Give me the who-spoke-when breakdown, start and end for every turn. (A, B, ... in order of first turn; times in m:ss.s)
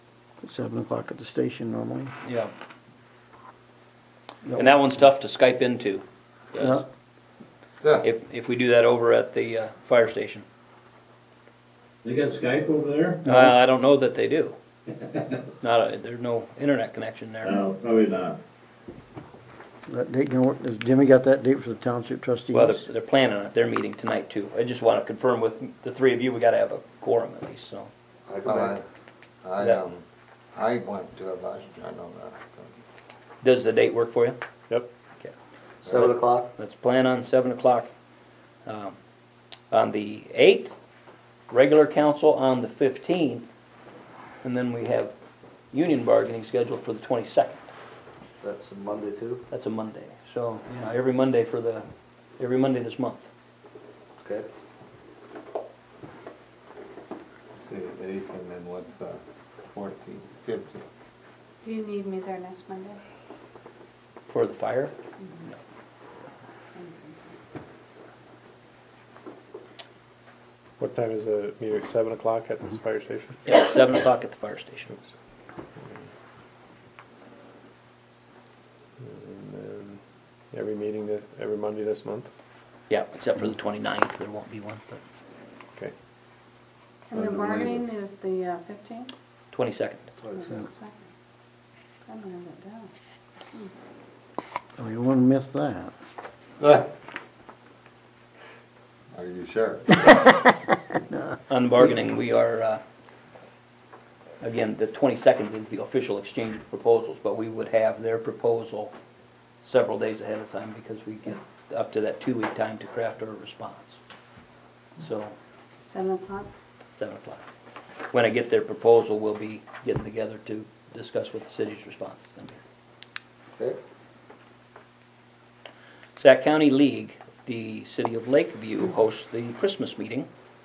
0:00.4-0:02.2 A
0:02.2-0:02.5 B
0:04.4-0:04.9 A
0:04.6-0:06.8 B
0:06.6-0:06.9 A
0:08.0-0:10.4 B
0:12.0-0:13.2 C
0:13.2-0:14.6 B
0:13.3-0:13.6 A
0:15.6-0:17.7 B
0:17.4-0:18.4 C
0:19.9-0:22.9 A
0:22.5-0:27.9 B
0:28.3-0:28.8 D
0:28.4-0:28.8 E
0:29.4-0:30.0 E
0:30.6-0:32.7 E
0:33.4-0:34.4 B
0:35.8-0:36.5 D
0:35.9-0:37.9 B
0:38.7-0:39.0 B
0:39.7-0:40.8 B
0:41.5-0:43.5 B
0:44.4-0:45.1 B
0:45.7-0:47.7 B
0:48.4-0:49.4 D
0:49.5-0:51.8 B
0:52.4-0:53.3 B
0:54.2-0:54.5 D
0:57.6-1:00.8 E
1:01.6-1:03.0 F
1:04.3-1:04.9 B
1:05.2-1:05.5 F
1:06.8-1:07.3 F
1:10.8-1:13.4 G
1:13.4-1:14.9 B
1:19.0-1:20.0 G
1:20.5-1:22.3 G
1:22.9-1:25.0 B
1:27.1-1:29.1 F
1:27.2-1:27.8 E
1:29.5-1:30.1 B
1:30.2-1:30.5 D
1:30.4-1:31.0 F
1:32.1-1:32.9 F
1:34.8-1:35.9 A
1:36.6-1:36.9 E
1:39.1-1:40.1 E
1:41.1-1:41.4 A
1:41.5-1:42.8 B
1:44.4-1:48.9 B
1:49.6-1:54.0 B
1:55.0-1:55.4 B
1:55.9-1:56.5 F
1:57.0-1:57.4 B
1:58.1-2:02.6 B
2:06.2-2:10.3 B